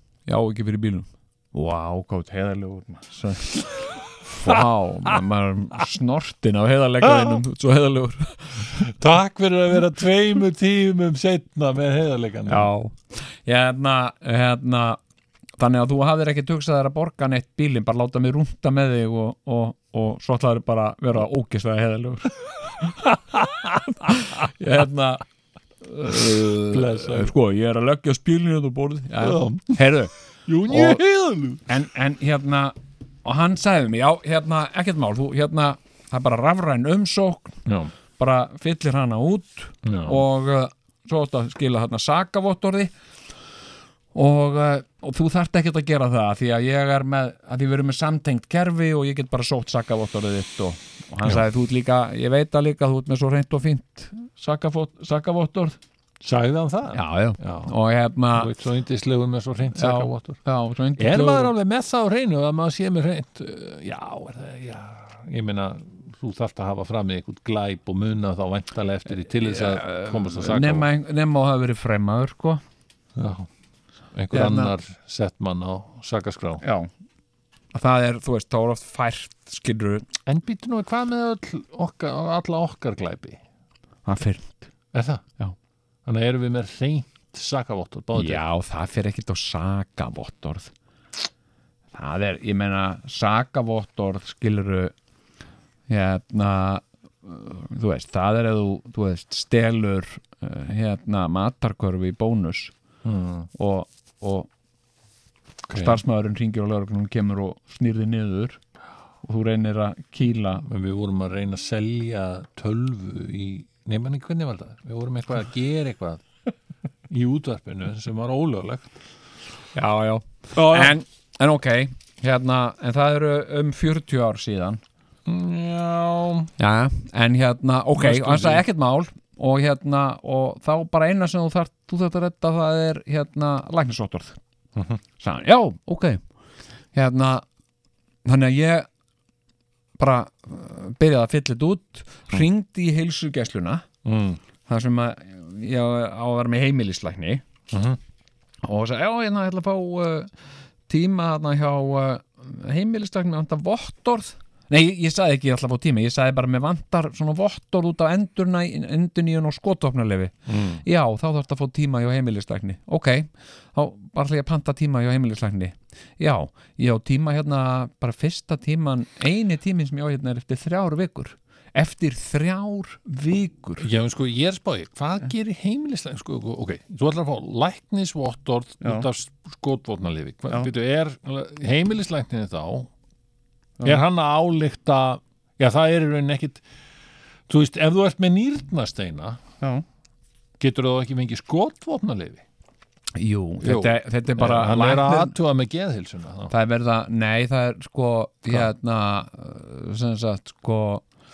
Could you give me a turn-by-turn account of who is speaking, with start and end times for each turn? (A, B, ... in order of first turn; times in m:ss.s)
0:00.2-0:08.7 A
0:07.0-0:07.4 B
0:08.8-0:12.7 B
0:12.5-0:15.0 A
0:15.6-0:22.9 A
0:23.1-0:24.1 B
0:24.0-0:25.2 A
0:25.8-0:30.1 A
0:26.7-0:27.3 B
0:29.2-0:29.8 B
0:30.4-0:31.6 B
0:30.7-0:31.0 A
0:31.7-0:37.6 A
0:37.6-0:37.9 B
0:38.2-0:42.9 A
0:39.8-0:40.2 B
0:44.1-0:55.8 A
0:56.2-0:57.7 B
0:56.9-0:58.5 A
0:58.3-1:00.4 B
0:59.7-1:01.5 A
1:01.0-1:10.9 B
1:09.3-1:12.6 A
1:13.2-1:13.5 B
1:14.1-1:16.6 B
1:14.3-1:14.7 A
1:16.6-1:16.9 A
1:17.7-1:20.1 A
1:20.2-1:23.4 B
1:24.0-1:24.7 A
1:24.9-1:25.2 B
1:26.0-1:28.4 B
1:28.1-1:30.7 A
1:31.9-1:34.9 A
1:35.9-1:42.7 A
1:43.0-1:43.5 B
1:43.5-1:44.5 A
1:45.7-1:46.0 B
1:45.7-1:48.6 A
1:49.2-1:50.6 A
1:50.6-1:56.2 B
1:57.1-1:58.8 B
1:59.7-2:04.8 A
2:00.5-2:00.9 B
2:05.2-2:06.5 B
2:06.6-2:14.4 A
2:08.0-2:08.6 B
2:15.2-2:16.2 A
2:16.9-2:17.4 A
2:18.2-2:18.9 A
2:20.0-2:23.8 A
2:24.0-2:24.4 B
2:24.7-2:27.4 A
2:27.7-2:28.0 B
2:28.6-2:30.3 A
2:30.9-2:53.9 A
2:40.5-2:40.8 B
2:53.8-3:02.9 B
3:03.8-3:06.6 B
3:07.5-3:09.4 B
3:10.6-3:12.4 B
3:13.2-3:15.3 A
3:13.6-3:16.5 B
3:16.5-3:21.0 A